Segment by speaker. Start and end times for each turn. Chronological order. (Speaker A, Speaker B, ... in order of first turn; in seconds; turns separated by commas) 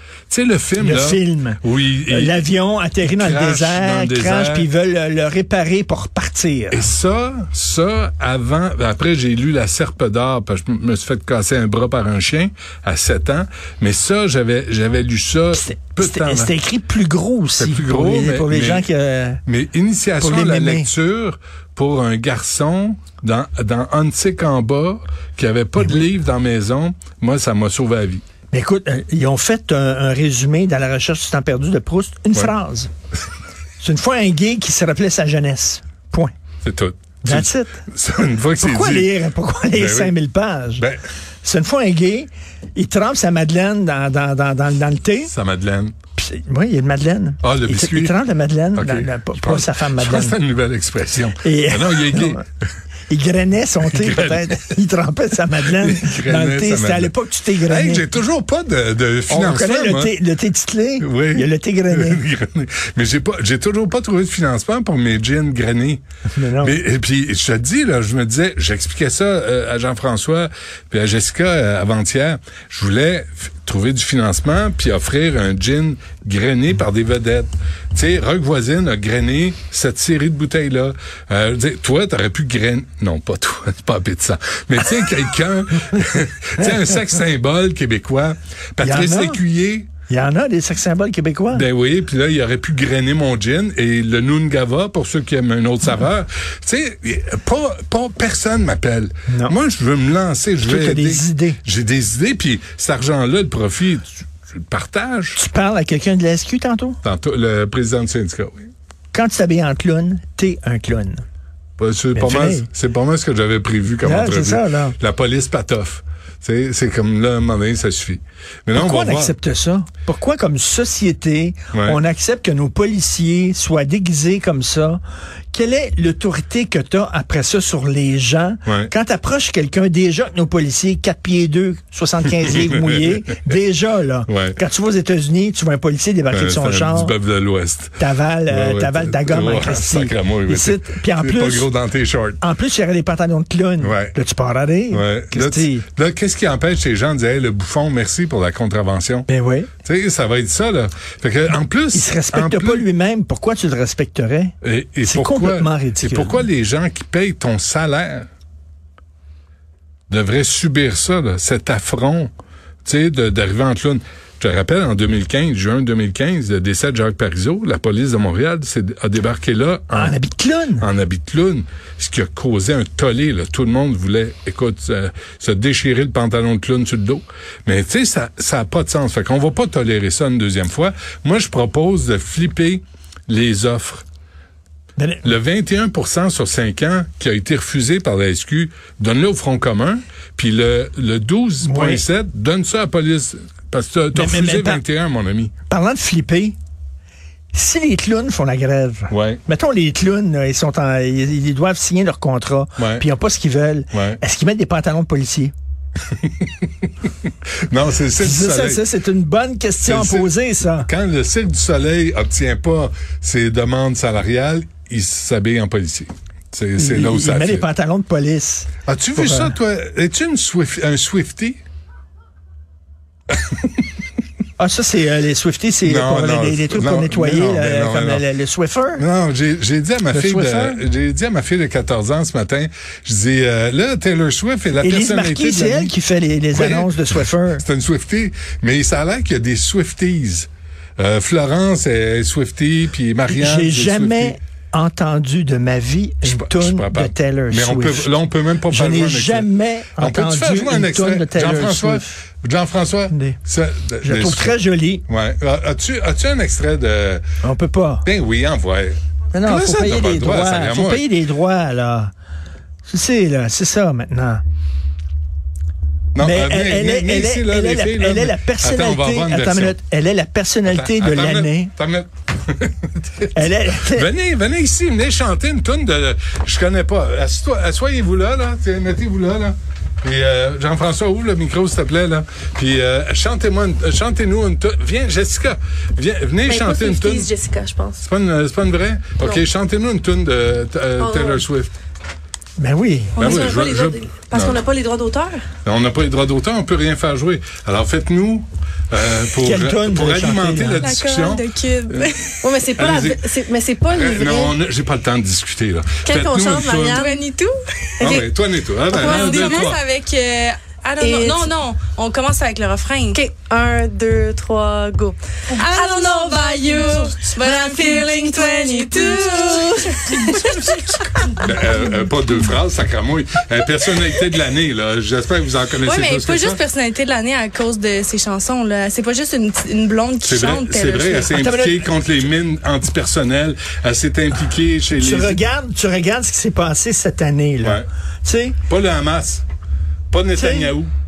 Speaker A: 0.3-2.4, Speaker B: 0.8-6.9, Speaker A: 3.0-4.7, Speaker A: 6.7-16.5, Speaker B: 15.5-19.4, Speaker A: 17.6-18.9, Speaker A: 19.4-28.2, Speaker B: 20.2-20.9, Speaker B: 28.5-32.9, Speaker B: 33.8-36.3, Speaker A: 36.6-39.1, Speaker B: 37.2-37.8, Speaker B: 38.6-40.8, Speaker A: 39.7-40.1, Speaker B: 41.4-45.3, Speaker A: 45.3-45.9, Speaker B: 46.1-50.4, Speaker A: 47.4-48.1, Speaker A: 48.7-52.4, Speaker B: 51.4-52.4, Speaker B: 53.1-58.1, Speaker A: 53.9-54.7, Speaker A: 55.6-60.2, Speaker B: 59.3-62.2, Speaker A: 61.0-66.0, Speaker B: 66.3-66.7, Speaker A: 66.6-89.9, Speaker B: 86.6-86.9, Speaker B: 88.8-89.4, Speaker B: 90.1-91.7, Speaker A: 91.5-105.4, Speaker B: 99.3-99.5, Speaker B: 100.6-101.6, Speaker B: 105.3-107.0, Speaker A: 107.0-108.7, Speaker B: 109.1-111.2, Speaker A: 111.8-119.3, Speaker B: 112.1-112.7, Speaker B: 114.0-115.0, Speaker B: 118.7-137.1, Speaker A: 121.7-122.0, Speaker A: 128.7-128.9, Speaker A: 132.4-133.6, Speaker A: 134.3-134.6, Speaker A: 136.3-142.4, Speaker B: 138.0-141.7, Speaker B: 142.4-145.8, Speaker A: 143.8-144.2, Speaker A: 144.9-149.3, Speaker B: 149.3-149.7, Speaker A: 149.8-152.8, Speaker B: 151.9-156.4, Speaker A: 154.6-158.3, Speaker A: 160.1-162.3, Speaker A: 162.8-170.2, Speaker B: 169.9-170.9, Speaker A: 170.8-184.0, Speaker B: 185.0-185.3, Speaker A: 185.2-195.5, Speaker B: 191.6-192.0, Speaker B: 194.1-194.8, Speaker B: 195.7-196.6, Speaker B: 197.5-205.5, Speaker A: 199.1-199.4, Speaker A: 202.8-203.0, Speaker A: 203.9-204.2, Speaker A: 206.2-206.8, Speaker A: 207.7-208.8, Speaker B: 208.2-210.9, Speaker A: 209.8-217.7, Speaker B: 216.8-219.5, Speaker A: 218.8-221.6, Speaker B: 224.6-229.0, Speaker A: 225.8-228.2, Speaker A: 229.0-235.9, Speaker B: 230.1-230.8, Speaker B: 234.8-237.6, Speaker A: 236.5-236.9, Speaker A: 237.5-244.3, Speaker B: 243.2-248.1, Speaker A: 246.2-254.6, Speaker B: 248.7-252.1, Speaker B: 253.1-253.4, Speaker B: 254.0-255.0, Speaker A: 255.1-257.2, Speaker B: 257.4-258.1, Speaker A: 258.0-261.1, Speaker B: 259.3-262.1, Speaker B: 262.9-264.4, Speaker A: 266.1-269.8, Speaker B: 266.2-271.7, Speaker A: 270.7-287.3, Speaker B: 273.3-274.1, Speaker C: 286.5-288.0, Speaker A: 288.0-291.7, Speaker C: 291.0-291.4, Speaker B: 292.6-293.4, Speaker C: 293.1-295.4, Speaker A: 293.2-294.6, Speaker A: 295.6-302.1, Speaker B: 299.4-300.9, Speaker D: 300.8-302.4, Speaker C: 302.4-304.5, Speaker A: 302.8-303.3, Speaker A: 303.9-307.0, Speaker C: 306.0-307.2, Speaker D: 306.9-307.5, Speaker C: 308.0-308.3, Speaker A: 308.0-309.8, Speaker D: 308.9-313.2, Speaker C: 308.9-309.7, Speaker C: 311.0-311.5, Speaker C: 313.1-321.0, Speaker D: 315.5-321.4, Speaker A: 321.4-326.6, Speaker D: 325.8-331.5, Speaker A: 330.2-335.4, Speaker B: 331.3-331.9, Speaker B: 335.0-338.6, Speaker A: 337.6-337.9, Speaker A: 338.7-339.4, Speaker A: 340.1-340.9, Speaker B: 340.4-340.7